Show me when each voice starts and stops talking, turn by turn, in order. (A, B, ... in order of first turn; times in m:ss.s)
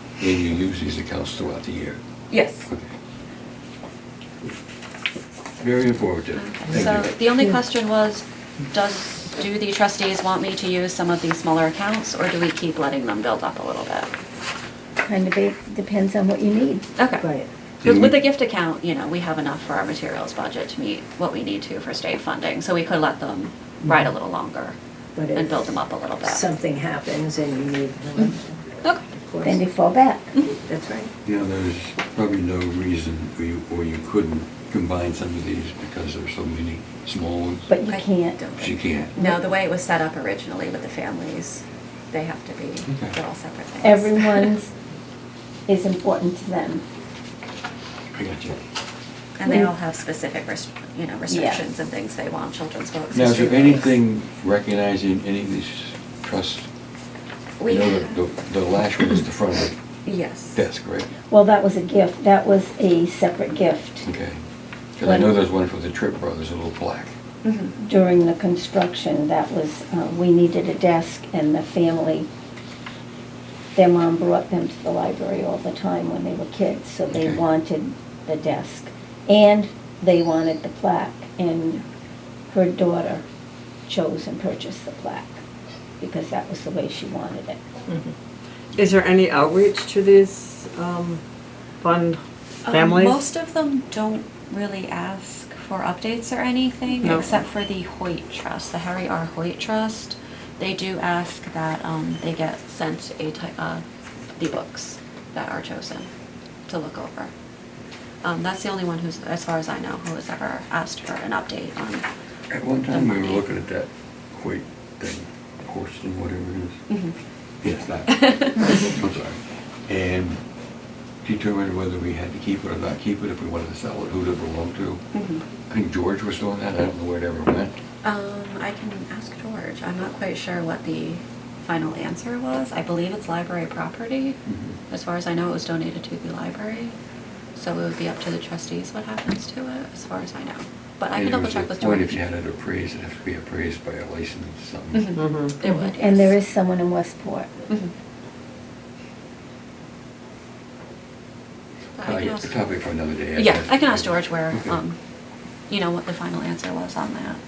0:00.2-0:02.0 A
0:02.3-0:02.7 B
0:05.6-0:07.1 A
0:06.3-0:14.1 B
0:15.0-0:16.8 C
0:17.0-0:17.3 B
0:17.2-0:17.5 D
0:17.8-0:24.8 B
0:17.8-0:18.2 A
0:25.1-0:29.6 D
0:25.3-0:26.5 B
0:29.4-0:30.3 C
0:30.6-0:31.1 D
0:31.2-0:37.7 A
0:37.7-0:38.4 C
0:37.8-0:44.5 B
0:38.6-0:39.1 A
0:42.9-0:43.2 A
0:43.8-0:44.7 C
0:45.7-0:46.8 C
0:48.1-0:48.6 A
0:49.4-0:54.0 B
0:51.3-0:51.6 C
0:53.1-0:56.7 A
0:57.6-0:58.2 B
0:57.6-0:59.8 A
1:00.0-1:00.6 B
1:00.5-1:01.1 A
1:01.3-1:04.1 C
1:04.0-1:04.4 A
1:05.0-1:07.1 A
1:05.0-1:05.3 C
1:07.4-1:07.8 B
1:07.8-1:12.3 C
1:13.7-1:21.8 C
1:17.1-1:17.4 A
1:22.5-1:23.2 C
1:23.9-1:25.4 C
1:26.0-1:27.6 C
1:28.7-1:31.2 E
1:31.8-1:33.2 E
1:32.6-1:43.8 B
1:44.4-1:46.1 B
1:46.7-1:47.3 B
1:48.2-1:52.0 B
1:52.5-1:56.8 A
1:52.9-1:53.4 B
1:56.9-1:57.2 B
1:57.6-2:00.4 A
1:58.1-1:58.9 B
2:01.2-2:05.0 A
2:05.1-2:05.4 B
2:05.7-2:07.8 A
2:08.0-2:14.4 B
2:14.4-2:14.8 A
2:14.9-2:16.9 B
2:17.6-2:22.2 B
2:21.1-2:25.3 A
2:24.9-2:26.4 B
2:25.2-2:25.5 E
2:25.6-2:27.6 C
2:32.0-2:32.6 B
2:32.0-2:34.8 A
2:33.4-2:35.0 B
2:35.7-2:37.4 B